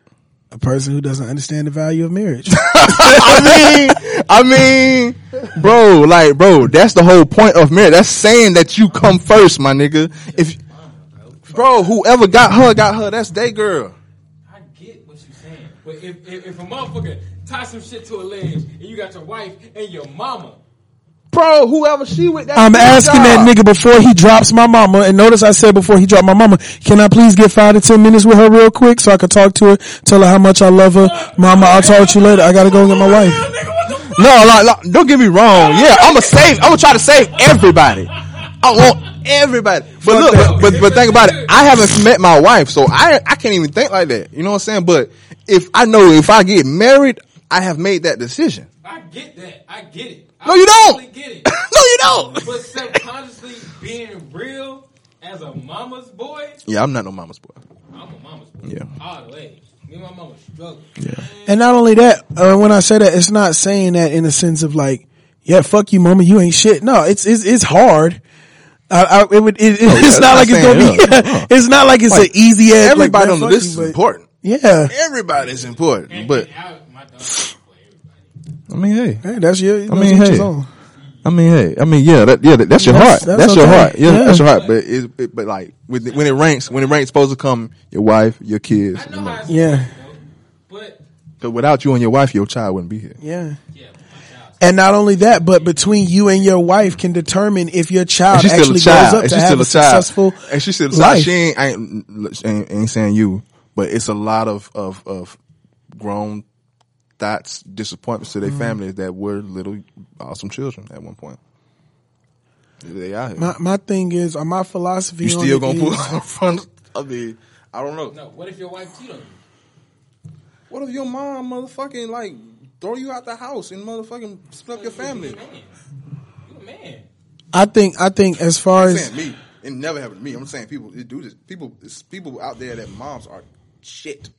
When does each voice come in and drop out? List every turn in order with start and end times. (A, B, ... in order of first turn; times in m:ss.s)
0:00.5-0:04.0 A
0:02.5-0:10.6 B
0:08.8-0:09.2 C
0:10.3-0:11.8 C
0:11.5-0:14.0 B
0:14.5-0:20.6 C
0:21.3-0:23.5 B
0:22.5-0:33.5 A
0:31.0-0:34.5 C
0:34.0-0:48.7 B
0:35.5-0:39.0 C
0:40.0-0:40.8 A
0:40.0-0:41.6 C
0:48.8-0:56.6 C
0:50.4-0:52.7 B
0:56.6-0:57.6 B
0:57.9-1:01.6 C
0:58.6-0:58.9 B
1:01.0-1:01.2 B
1:01.4-1:08.2 A
1:08.9-1:14.9 A
1:09.8-1:11.5 B
1:12.1-1:14.3 B
1:14.9-1:16.5 B
1:15.3-1:18.4 C
1:18.7-1:19.2 B
1:19.2-1:20.7 A
1:19.9-1:20.5 B
1:20.9-1:21.3 C
1:21.2-1:29.4 B
1:22.7-1:24.4 A
1:24.2-1:24.7 C
1:26.1-1:26.9 C
1:28.9-1:31.0 C
1:29.5-1:29.9 A
1:31.4-1:33.2 B
1:33.2-1:33.6 A
1:33.7-1:36.2 C
1:34.6-1:41.3 A
1:38.3-1:45.4 B
1:45.9-1:46.4 B
1:47.2-1:51.4 B
1:48.4-1:48.8 A
1:52.8-1:53.5 B
1:53.4-1:56.1 A
1:55.2-1:58.1 B
1:58.1-1:59.4 C
2:00.7-2:05.4 B
2:04.7-2:05.8 C
2:06.4-2:07.1 C
2:07.5-2:09.1 A
2:08.7-2:14.3 B